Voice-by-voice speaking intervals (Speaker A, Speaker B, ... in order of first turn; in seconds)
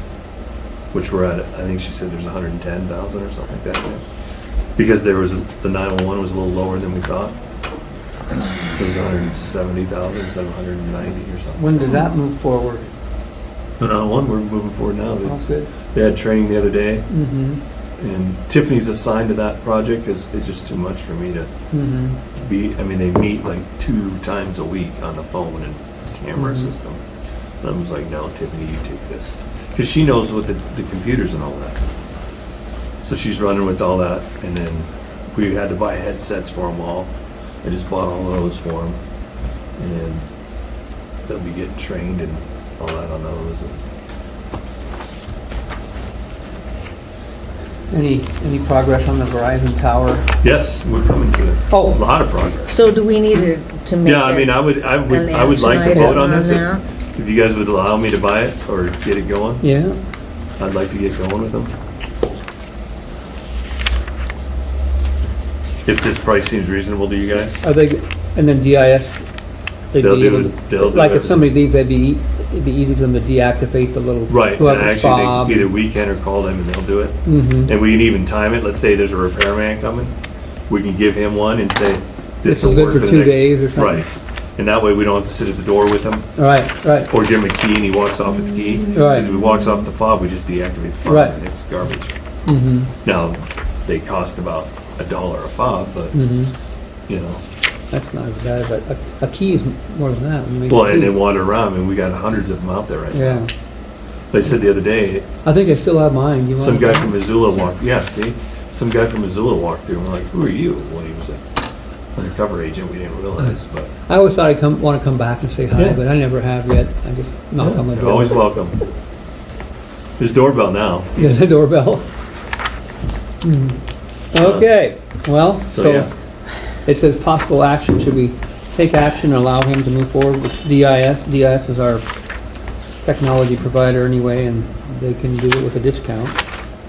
Speaker A: 0.9-4.0, 4.8-7.3, 8.7-11.6, 13.8-17.1, 18.0-21.5, 22.4-27.0, 27.6-31.8, 33.0-39.0, 39.8-40.3, 41.2-43.8, 50.4-52.7, 54.0-59.7, 60.6-61.7, 65.8-67.6, 70.0-71.5, 74.3-80.1, 80.7-86.3, 87.1-92.1, 93.0-96.2, 97.1-97.4, 100.7-103.5, 104.3-105.9, 106.5-111.4, 112.2-113.9, 117.6-118.8, 120.2-121.4, 124.4-124.7, 125.7-126.1
Speaker B: 11.6-12.9, 15.2-15.7, 17.1-17.6, 21.7-22.2, 26.4-26.7, 47.9-50.3, 51.7-52.0, 59.6-60.0, 67.6-69.2, 69.9-75.7, 77.2-77.7, 82.4-84.0, 86.4-87.1, 88.9-89.3, 91.0-91.4, 92.5-92.9, 96.1-96.5, 97.9-101.2, 103.1-103.5, 105.4-107.2, 114.1-118.6, 121.2-122.0, 123.4-123.8, 124.3-126.1, 126.8-132.0, 133.0-136.4
Speaker C: 52.7-56.8